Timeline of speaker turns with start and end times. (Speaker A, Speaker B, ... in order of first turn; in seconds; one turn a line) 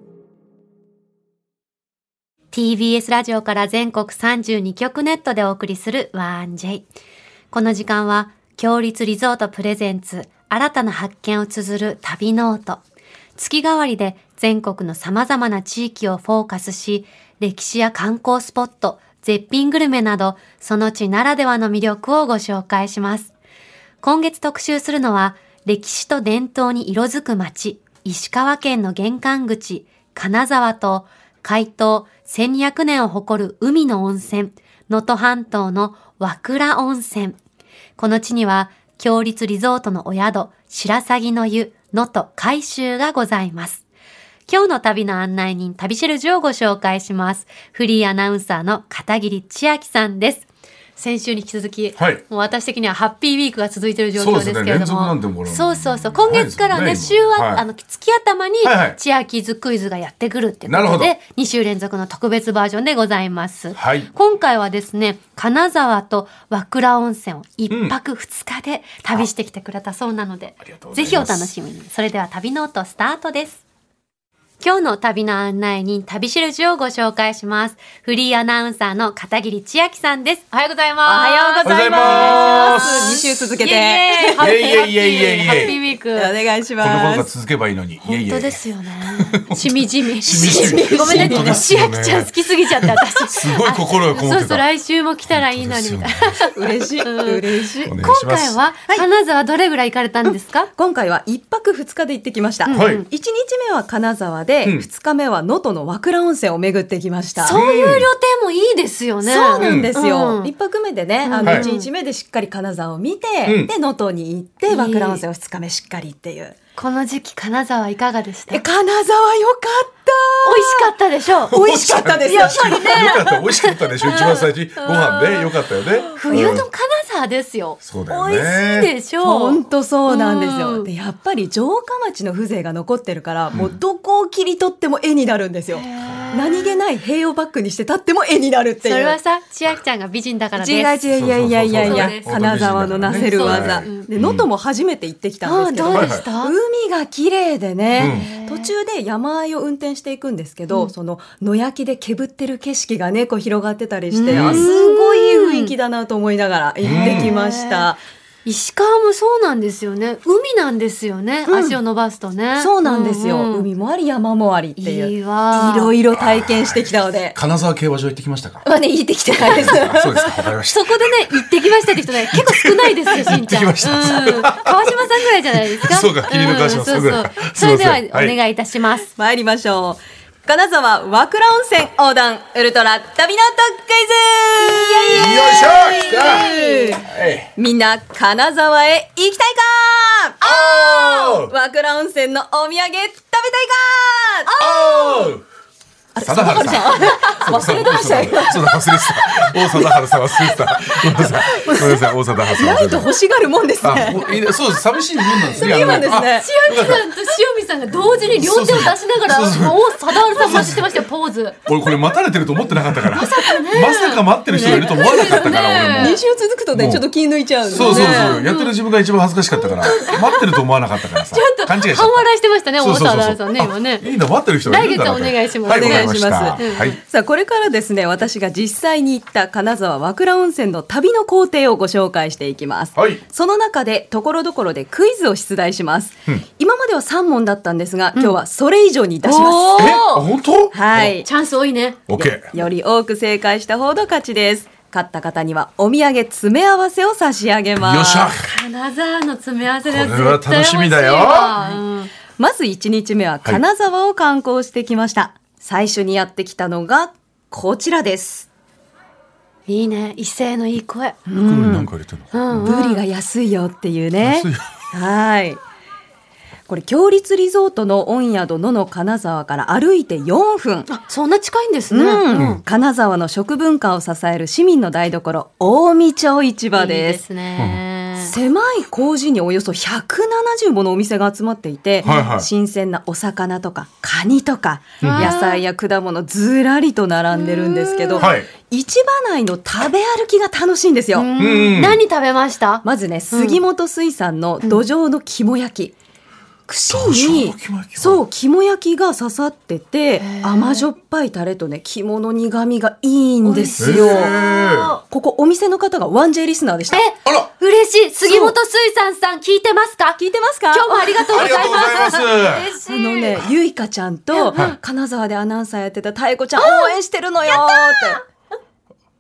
Speaker A: 2.5-6.9
Speaker A: 7.5-12.8
Speaker A: 13.4-23.3
Speaker A: 24.0-37.4
Speaker A: 38.0-43.8
Speaker A: 44.5-73.6
Speaker B: 52.0-52.2
Speaker B: 54.2-57.6
Speaker B: 58.6-59.0
Speaker B: 60.7-61.1
Speaker B: 63.8-64.1
Speaker B: 67.7-68.0
Speaker B: 70.7-71.5
Speaker A: 74.6-86.3
Speaker C: 81.0-84.8
Speaker B: 81.6-83.3
Speaker B: 84.3-85.7
Speaker C: 85.5-87.3
Speaker B: 86.8-88.6
Speaker A: 88.0-100.7
Speaker B: 89.1-94.7
Speaker C: 90.3-91.6
Speaker B: 95.3-96.5
Speaker C: 96.5-97.9
Speaker B: 97.9-98.6
Speaker C: 100.3-107.6
Speaker A: 102.7-103.1
Speaker B: 102.7-103.0
Speaker A: 107.4-110.5
Speaker B: 107.5-108.1
Speaker C: 109.2-116.6
Speaker B: 109.6-109.9
Speaker A: 111.2-111.9
Speaker B: 113.5-113.7
Speaker A: 114.7-115.2
Speaker A: 116.8-118.6
Speaker C: 118.5-120.9
Speaker A: 120.4-121.6
Speaker B: 121.5-126.7
Speaker C: 121.5-123.2
Speaker A: 122.3-125.5
Speaker A: 126.1-130.9
Speaker C: 126.2-126.7
Speaker B: 127.8-128.9
Speaker C: 129.2-139.2
Speaker B: 133.5-133.8
Speaker A: 135.7-136.8
Speaker A: 138.8-141.1
Speaker C: 140.6-158.0
Speaker B: 141.1-144.5
Speaker A: 141.7-144.1
Speaker A: 145.4-146.5
Speaker B: 145.9-146.2
Speaker A: 148.0-148.7
Speaker B: 148.0-148.3
Speaker A: 154.1-155.7
Speaker B: 154.3-154.7
Speaker B: 156.8-157.3
Speaker A: 156.9-157.9
Speaker A: 158.5-163.7
Speaker C: 161.5-161.8
Speaker C: 162.6-167.4
Speaker A: 164.8-165.9
Speaker B: 166.1-168.7
Speaker C: 168.6-170.5
Speaker B: 169.5-171.5
Speaker A: 170.7-179.1
Speaker B: 172.1-178.4
Speaker C: 179.2-195.3
Speaker A: 184.6-187.0
Speaker B: 185.1-186.5
Speaker B: 187.0-187.5
Speaker B: 190.4-191.5
Speaker A: 194.5-195.3
Speaker B: 194.6-195.4
Speaker C: 196.2-204.6
Speaker B: 196.2-203.1
Speaker A: 196.7-198.6
Speaker B: 203.8-207.1
Speaker C: 205.2-206.5
Speaker A: 205.6-211.6
Speaker B: 208.2-210.9
Speaker B: 211.7-216.2
Speaker A: 213.1-216.2
Speaker C: 214.5-218.5
Speaker B: 216.7-217.1
Speaker B: 217.7-222.3
Speaker A: 217.8-218.8
Speaker A: 219.5-220.6
Speaker A: 221.1-224.1
Speaker B: 222.8-227.0
Speaker A: 224.7-226.9
Speaker C: 225.7-240.0
Speaker B: 233.0-233.2
Speaker A: 239.2-240.3
Speaker B: 239.8-241.2
Speaker C: 240.7-241.3
Speaker A: 241.2-242.0
Speaker B: 242.1-242.5
Speaker C: 242.1-248.3
Speaker B: 247.8-248.5
Speaker A: 248.4-252.1
Speaker B: 249.9-251.6
Speaker C: 252.4-258.5
Speaker A: 259.7-261.2
Speaker C: 261.3-261.9
Speaker B: 261.4-262.7
Speaker A: 262.3-263.0
Speaker C: 262.5-265.6
Speaker B: 264.2-264.7
Speaker C: 266.7-270.9
Speaker A: 270.9-272.6
Speaker C: 271.9-277.2
Speaker B: 272.3-272.6
Speaker A: 276.7-278.3
Speaker C: 278.2-291.3
Speaker B: 282.0-282.5
Speaker A: 282.0-282.3
Speaker B: 285.0-285.4
Speaker A: 285.0-285.6
Speaker A: 287.3-288.3
Speaker B: 288.2-288.5
Speaker A: 291.2-293.6
Speaker B: 291.4-292.0
Speaker C: 292.8-295.9
Speaker C: 296.7-304.4
Speaker B: 296.9-298.2
Speaker A: 300.2-300.9
Speaker A: 303.4-305.0
Speaker B: 303.8-304.9
Speaker C: 305.0-307.0
Speaker A: 306.9-313.4
Speaker B: 307.2-307.5
Speaker C: 308.3-308.6
Speaker C: 310.2-311.8
Speaker B: 311.2-312.7
Speaker C: 312.8-318.2
Speaker A: 314.3-314.6
Speaker A: 316.6-316.9
Speaker A: 317.5-318.2